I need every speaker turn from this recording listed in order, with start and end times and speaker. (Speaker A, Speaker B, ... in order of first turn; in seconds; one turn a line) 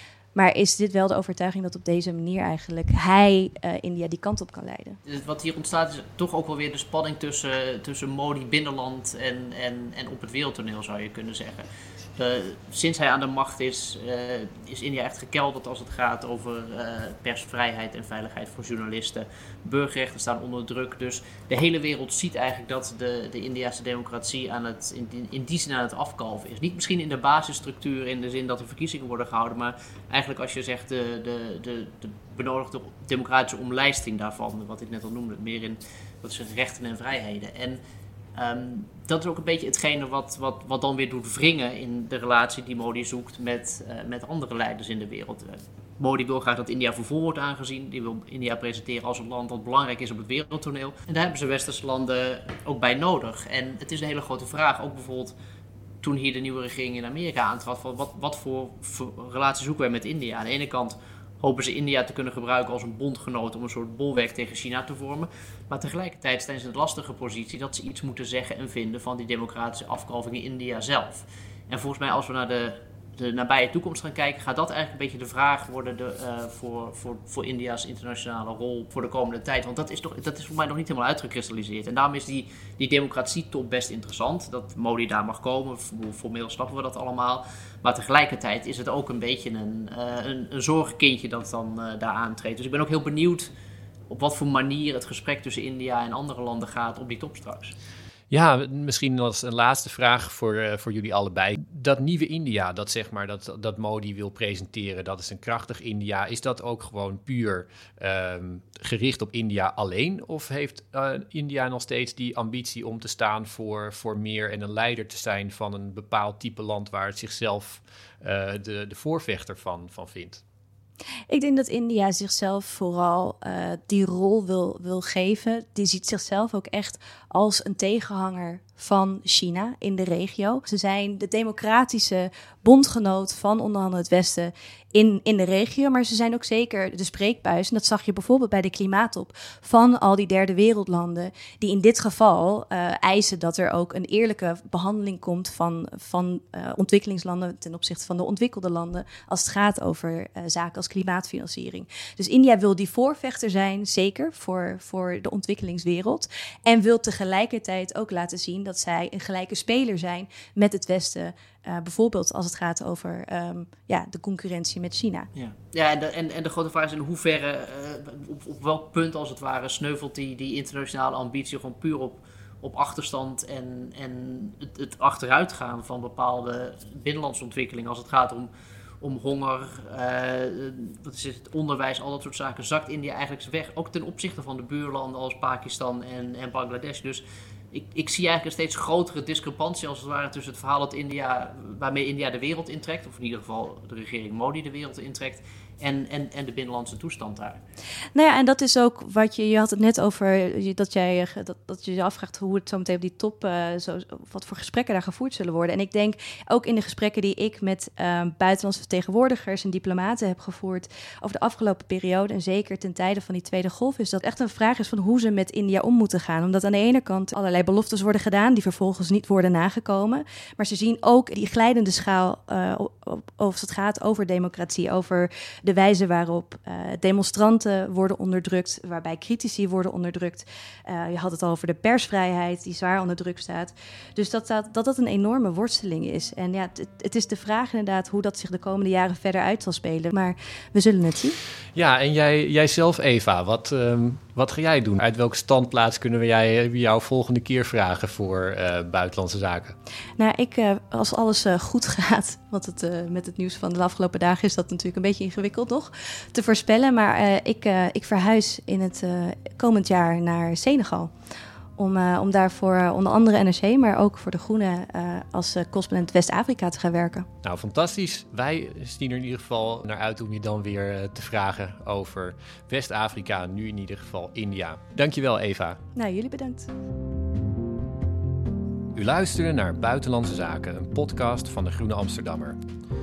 Speaker A: 0.3-5.0
Speaker B: 5.0-37.8
Speaker B: 38.3-55.3
Speaker B: 56.0-93.5
Speaker B: 94.1-97.7
Speaker C: 98.3-120.4
Speaker A: 121.3-165.3
Speaker B: 165.3-178.5
Speaker B: 179.0-197.6
Speaker A: 198.1-241.4
Speaker C: 241.7-249.8
Speaker A: 250.2-261.1
Speaker A: 261.8-267.3
Speaker C: 267.4-275.8
Speaker A: 275.9-276.7
Speaker C: 278.9-282.6